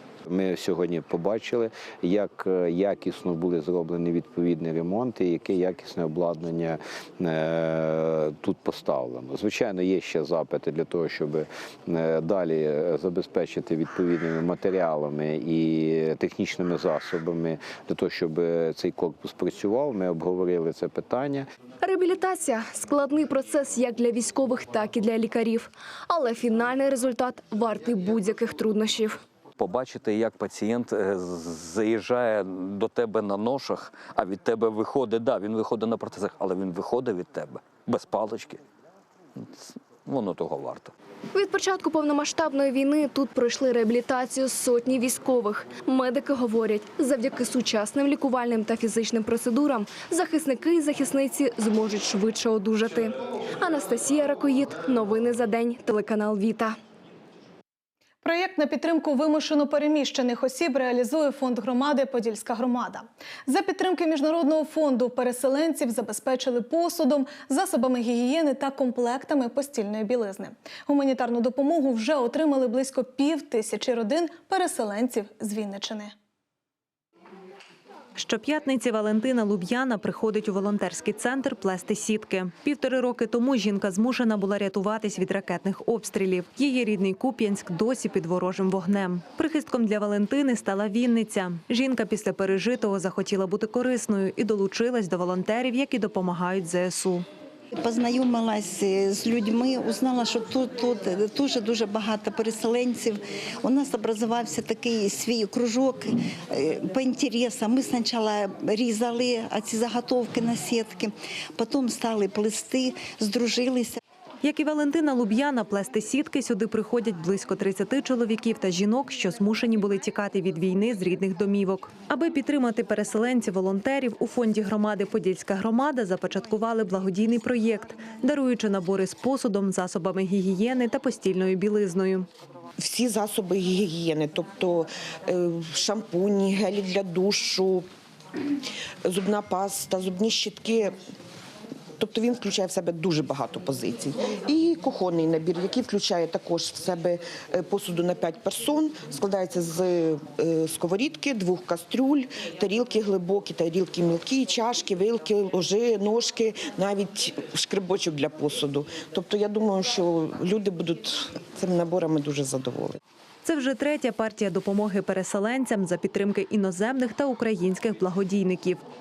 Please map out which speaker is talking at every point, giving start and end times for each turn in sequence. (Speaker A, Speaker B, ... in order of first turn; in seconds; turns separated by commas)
Speaker A: 0.3-21.5, Speaker B: 21.8-29.2, Speaker C: 29.6-38.6, Speaker C: 39.4-40.9, Speaker B: 41.3-56.8, Speaker D: 58.2-76.2, Speaker E: 78.2-97.3, Speaker F: 97.8-114.0, Speaker E: 114.4-132.3, Speaker G: 132.8-137.9, Speaker G: 139.1-141.0, Speaker G: 142.0-163.0, Speaker E: 163.4-168.8